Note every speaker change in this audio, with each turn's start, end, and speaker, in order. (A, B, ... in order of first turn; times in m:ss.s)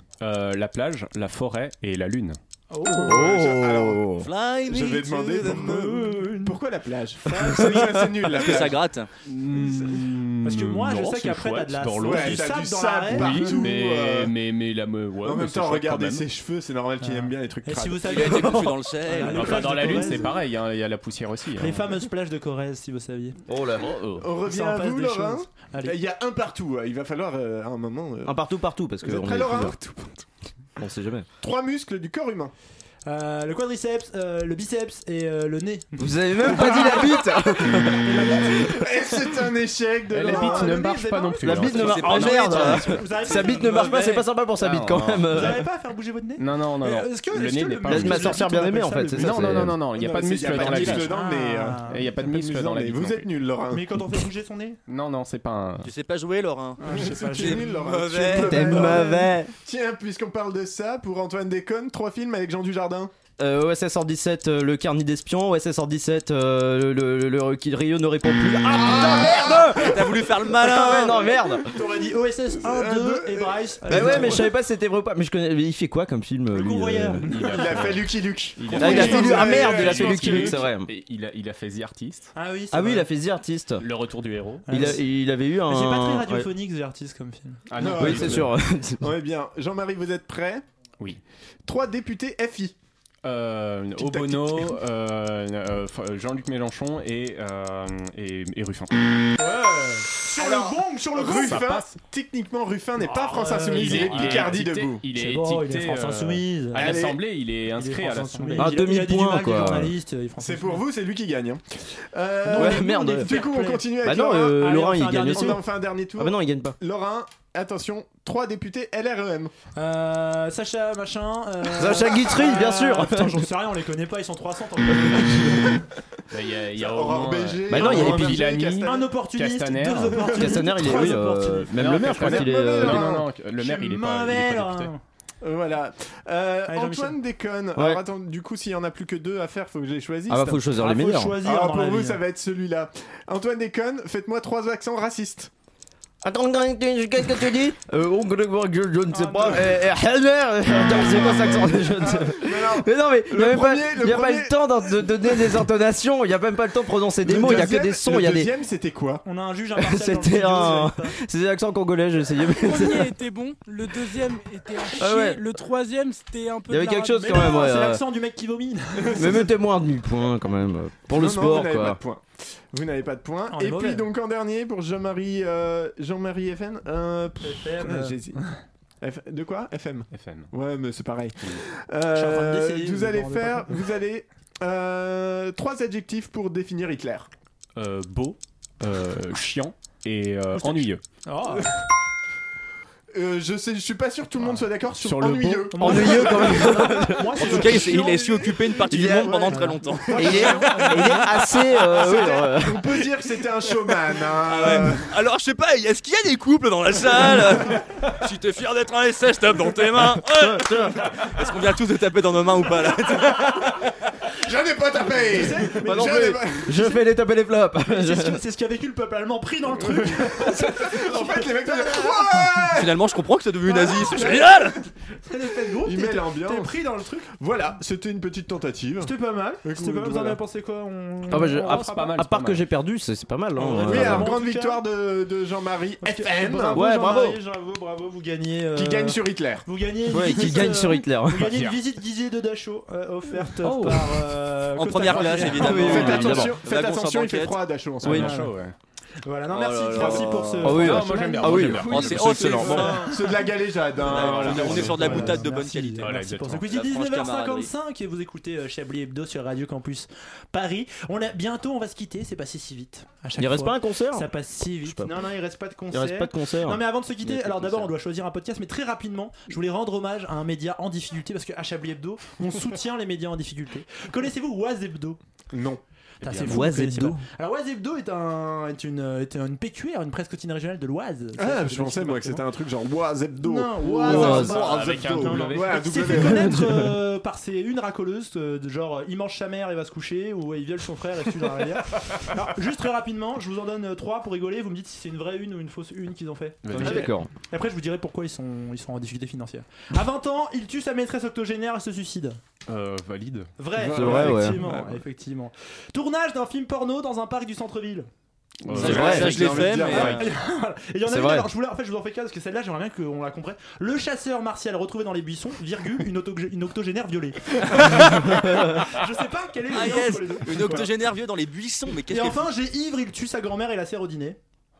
0:00.2-0:02.4 A
0:02.7-0:03.3 B
0:02.8-0:04.1 C
0:03.0-0:04.3 D
0:04.2-0:05.6 E
0:04.7-0:08.8 C
0:05.0-0:06.6 B
0:07.2-0:08.0 B
0:08.3-0:09.1 E
0:09.2-0:16.2 A
0:09.6-0:09.9 C
0:10.4-0:13.6 B
0:12.0-0:14.3 C
0:15.2-0:18.5 C
0:17.0-0:20.3 B
0:18.0-0:19.9 E
0:18.2-0:18.7 D
0:19.1-0:21.9 A
0:21.6-0:23.4 B
0:23.5-0:24.3 D
0:24.2-0:28.4 C
0:24.4-0:25.9 B
0:28.2-0:29.8 D
0:29.0-0:30.2 C
0:30.8-0:31.3 D
0:31.4-0:32.5 C
0:33.0-0:38.8 B
0:36.0-0:38.6 D
0:38.2-0:40.8 C
0:40.1-0:42.1 A
0:40.1-0:44.2 B
0:41.4-0:45.6 D
0:41.7-0:43.0 E
0:44.6-0:45.6 A
0:45.3-0:49.7 B
0:46.4-0:48.4 A
0:47.9-0:49.8 D
0:49.2-0:51.1 A
0:49.7-0:54.0 C
0:50.8-0:52.1 B
0:51.9-0:53.3 A
0:53.7-0:54.8 B
0:54.9-0:55.9 A
0:55.8-0:58.8 E
0:56.8-0:57.8 B
0:56.8-1:03.1 C
0:58.3-0:59.5 D
0:58.7-0:59.0 B
1:03.4-1:11.7 D
1:08.8-1:12.0 C
1:09.5-1:11.1 E
1:11.7-1:14.5 B
1:12.6-1:14.5 C
1:13.9-1:17.2 D
1:16.5-1:17.9 B
1:17.2-1:22.3 A
1:17.4-1:20.6 C
1:18.7-1:20.6 B
1:18.7-1:20.9 D
1:22.3-1:23.1 B
1:22.7-1:23.8 D
1:23.8-1:24.8 A
1:24.7-1:25.0 B
1:24.7-1:26.5 D
1:25.6-1:27.6 B
1:27.7-1:28.5 A
1:27.8-1:30.6 C
1:27.8-1:29.1 D
1:31.6-1:32.7 C
1:33.2-1:39.3 A
1:34.0-1:34.8 C
1:39.4-1:41.6 B
1:40.3-1:45.0 C
1:41.3-1:42.0 A
1:43.0-1:44.6 B
1:43.6-1:48.7 A
1:45.1-1:47.0 B
1:46.7-1:47.2 C
1:47.7-1:50.8 B
1:48.6-1:49.9 D
1:50.4-1:59.5 C
1:52.4-1:55.6 B
1:52.5-1:53.5 D
1:54.0-1:55.6 D
1:56.2-1:56.8 D
1:59.8-2:05.8 B
2:01.7-2:03.5 D
2:06.3-2:10.5 A
2:06.8-2:09.1 C
2:07.7-2:08.4 D
2:08.8-2:11.8 B
2:10.2-2:13.1 D
2:11.7-2:14.9 A
2:12.0-2:13.3 C
2:13.6-2:15.0 B
2:15.4-2:20.7 C
2:16.7-2:17.2 B
2:17.7-2:18.0 D
2:20.3-2:21.4 D
2:20.7-2:22.2 B
2:21.4-2:25.5 C
2:26.2-2:38.5 D
2:29.1-2:29.7 B
2:31.2-2:35.4 C
2:37.2-2:39.2 C
2:39.2-2:41.1 B
2:39.8-2:43.1 D
2:42.5-2:47.0 F
2:44.9-2:45.5 D
2:46.7-2:48.0 D
2:46.8-2:49.5 B
2:49.0-2:49.5 C
2:49.1-2:52.0 D
2:51.1-2:58.4 C
2:53.5-2:54.0 B
2:57.4-2:58.2 B
2:59.0-3:07.3 C
3:00.1-3:00.5 A
3:02.1-3:03.8 B
3:07.8-3:11.0 A
3:10.6-3:11.7 B
3:13.1-3:18.2 C
3:14.9-3:15.7 A
3:15.7-3:18.8 B
3:15.8-3:17.7 D
3:17.4-3:21.1 E
3:18.9-3:19.5 D
3:18.9-3:25.0 C
3:19.5-3:21.3 B
3:20.1-3:23.0 D
3:24.4-3:33.9 E
3:30.0-3:31.1 D
3:34.4-3:36.8 C
3:35.1-3:37.0 B
3:35.6-3:38.4 D
3:37.8-3:42.6 B
3:39.7-3:43.1 C
3:42.7-3:44.8 E
3:43.7-3:44.8 C
3:43.7-3:44.5 B
3:45.3-3:47.3 B
3:45.7-3:46.8 C
3:47.4-3:50.4 C
3:49.0-3:52.3 B
3:51.3-3:54.4 D
3:51.6-3:52.6 A
3:53.6-3:54.8 B
3:53.6-3:56.8 C
3:56.0-4:06.3 B
3:56.7-3:57.4 D
3:58.7-3:59.6 C
4:00.1-4:01.5 D
4:01.4-4:01.7 A
4:03.6-4:04.2 A
4:04.7-4:07.6 E
4:05.1-4:05.6 A
4:05.6-4:06.6 D
4:05.6-4:08.4 C
4:08.0-4:08.3 D
4:08.0-4:08.7 A
4:08.1-4:08.5 B
4:09.2-4:13.1 B
4:09.5-4:10.6 E
4:10.0-4:10.6 C
4:10.6-4:13.0 A
4:10.6-4:13.1 D
4:11.9-4:13.0 E
4:12.6-4:15.4 C
4:14.0-4:16.1 E
4:14.0-4:35.2 B
4:14.1-4:15.4 A
4:16.0-4:16.7 A
4:16.7-4:17.7 E
4:23.4-4:24.3 D
4:24.8-4:25.1 D
4:25.9-4:26.8 D
4:27.2-4:27.9 E
4:35.5-4:35.8 C
4:36.2-4:42.4 B
4:36.2-4:36.6 A
4:36.4-4:37.2 D
4:41.4-4:46.7 C
4:43.4-5:02.4 B
4:43.8-4:46.2 A
4:44.0-4:44.6 D
4:46.2-4:46.9 D
4:56.6-4:57.1 A
4:56.8-4:57.3 D
5:02.7-5:03.6 A
5:03.6-5:08.1 B
5:03.8-5:05.0 C
5:03.8-5:04.6 D
5:08.6-5:10.1 A
5:08.7-5:10.2 C
5:08.8-5:10.3 E
5:08.8-5:09.4 D
5:09.0-5:20.9 B
5:11.1-5:11.5 D
5:19.7-5:22.5 E
5:20.5-5:20.8 C
5:22.1-5:24.4 B